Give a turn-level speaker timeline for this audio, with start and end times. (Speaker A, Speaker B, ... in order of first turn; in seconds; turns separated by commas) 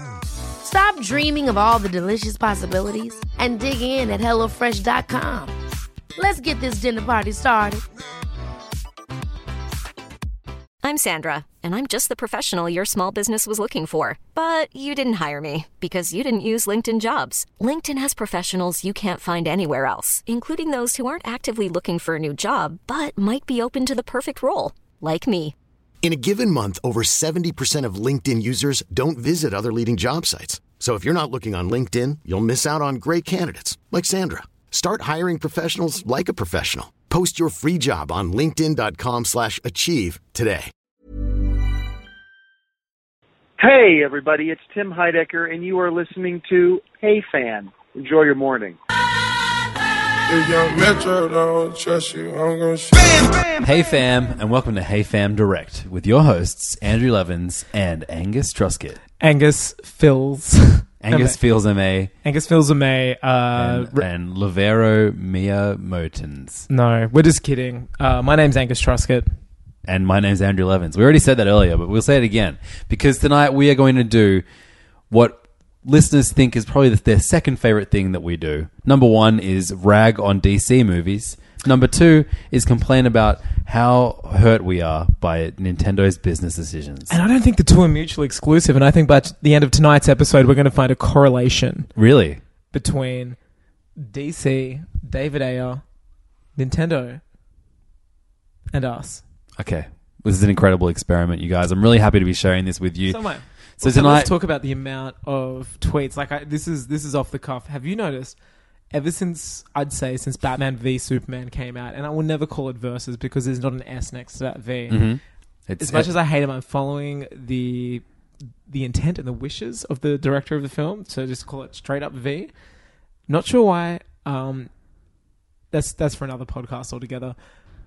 Speaker A: 0.6-5.5, Speaker A: 6.2-7.8, Speaker B: 10.8-25.5, Speaker C: 26.0-40.7, Speaker D: 43.6-48.8, Speaker E: 50.3-53.2, Speaker F: 53.6-59.0, Speaker G: 59.2-61.4, Speaker F: 61.0-62.1, Speaker G: 62.2-64.0, Speaker F: 63.5-66.7, Speaker G: 66.7-69.3, Speaker F: 69.8-74.4, Speaker F: 75.1-87.2, Speaker G: 87.1-91.9, Speaker F: 91.9-92.4, Speaker G: 92.7-93.4, Speaker G: 94.0-95.8, Speaker G: 96.5-97.2, Speaker G: 98.7-99.2, Speaker F: 99.6-103.2, Speaker G: 103.0-108.3, Speaker F: 103.8-104.3, Speaker G: 108.9-115.1, Speaker F: 114.9-116.1, Speaker G: 115.8-118.0, Speaker G: 118.7-122.5, Speaker G: 123.3-124.7, Speaker G: 125.7-127.3